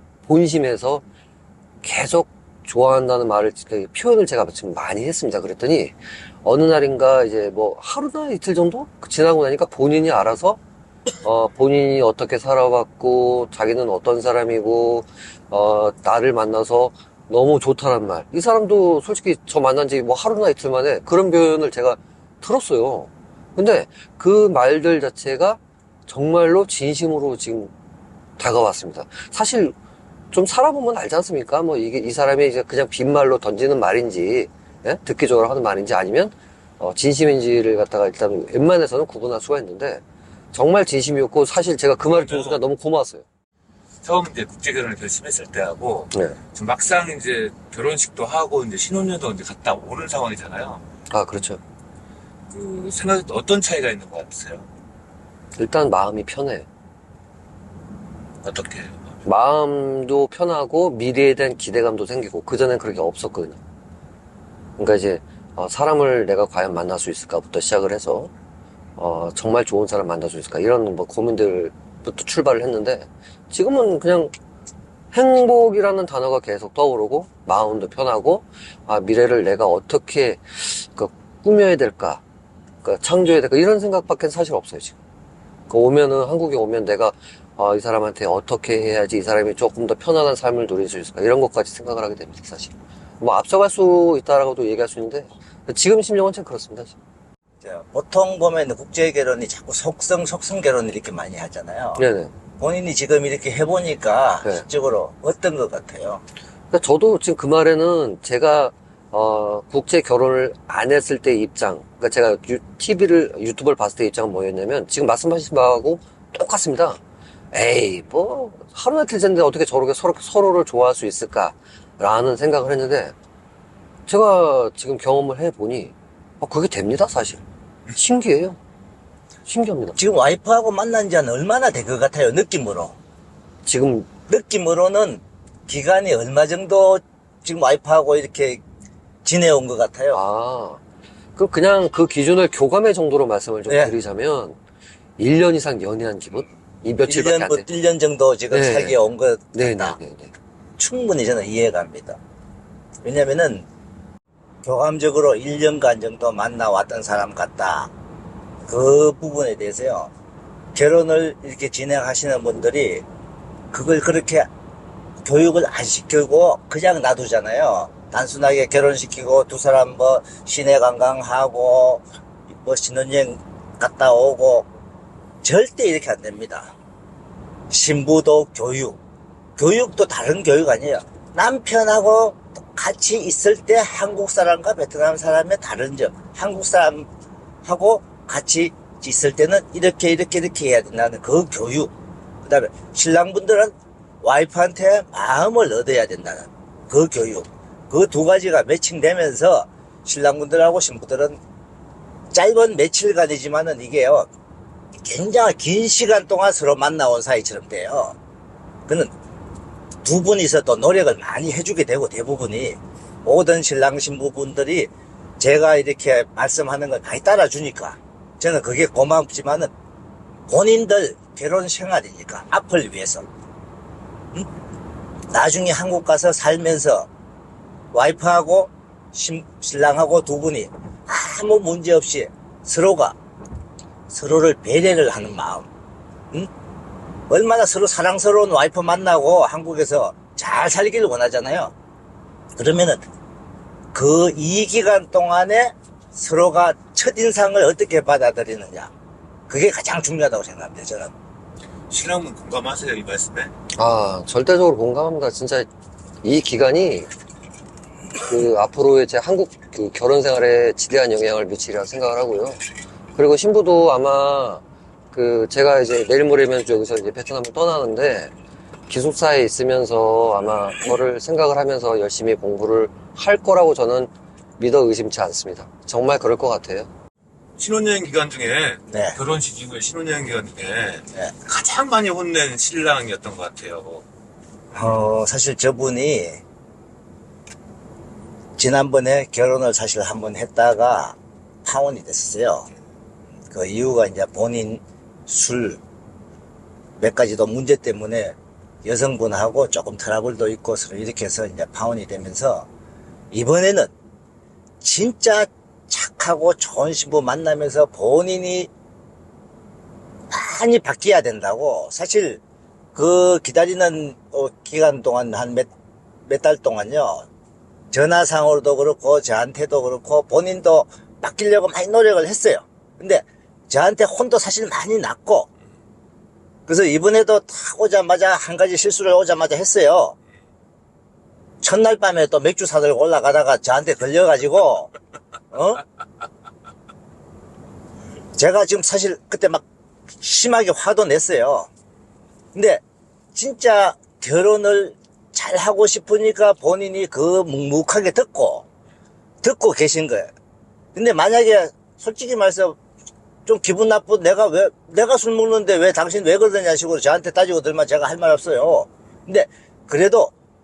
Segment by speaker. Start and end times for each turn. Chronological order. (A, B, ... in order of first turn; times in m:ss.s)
0:00.3-0:01.0 A
0:01.8-0:10.6 A
0:11.2-0:27.7 A
0:28.4-0:29.7 A
0:30.3-0:40.0 A
0:40.5-0:43.2 A
0:42.2-0:42.6 B
0:44.0-0:50.8 B
0:51.1-0:51.6 A
0:52.5-0:54.7 B
0:55.6-0:56.6 A
0:58.4-0:59.1 B
0:59.2-1:03.6 A
1:04.8-1:08.3 A
1:09.0-1:14.3 A
1:15.1-1:22.2 A
1:22.8-1:24.9 A
1:25.7-1:36.9 A
1:37.6-1:42.0 C
1:42.0-1:42.3 A
1:42.6-1:46.2 C
1:46.7-1:57.0 A
1:57.5-2:03.1 A
2:04.1-2:07.4 A
2:07.9-2:08.6 A
2:09.4-2:10.0 A
2:10.0-2:12.9 C
2:13.6-2:14.1 A
2:14.3-2:18.6 C
2:19.2-2:20.2 C
2:20.1-2:20.8 A
2:21.4-2:24.6 A
2:23.7-2:24.0 C
2:25.2-2:27.6 A
2:27.0-2:30.0 C
2:28.5-2:29.0 A
2:29.5-2:30.3 A
2:30.8-2:32.2 C
2:33.0-2:33.6 C
2:34.6-2:37.9 C
2:38.7-2:40.1 C
2:40.7-2:43.0 C
2:43.7-2:44.5 C
2:45.2-2:52.0 C
2:52.6-2:54.7 C
2:55.4-2:56.7 C
2:57.7-2:59.0 C
2:59.6-3:07.1 C
3:07.6-3:11.9 C
3:12.4-3:21.4 C
3:22.3-3:24.3 C
3:25.0-3:28.2 C
3:30.0-3:39.7 C
3:40.5-3:43.2 C
3:45.3-3:47.1 C
3:47.9-3:53.2 C
3:54.1-3:55.7 C
3:57.3-4:01.7 C
4:02.6-4:03.0 C
4:03.9-4:08.9 C
4:09.5-4:11.1 C
4:11.9-4:13.5 B
4:13.8-4:15.7 A
4:16.2-4:17.1 A
4:18.2-4:22.6 A
4:23.1-4:28.3 A
4:28.9-4:36.9 A
4:37.6-4:44.0 B
4:38.9-4:39.2 C
4:44.7-4:46.4 C
4:48.6-4:52.7 C
4:53.5-4:55.8 C
4:57.0-5:02.7 C
5:03.3-5:03.9 C
5:04.8-5:08.7 C
5:10.3-5:12.4 C
5:12.9-5:15.7 C
5:16.3-5:17.3 C
5:17.9-5:25.5 C
5:26.7-5:30.1 C
5:31.6-5:34.9 C
5:35.5-5:35.8 C
5:38.4-5:39.6 C
5:40.2-5:41.7 C
5:42.5-5:42.8 C
5:43.3-5:48.6 C
5:49.4-5:50.3 C
5:50.9-5:52.8 C
5:53.4-6:00.3 C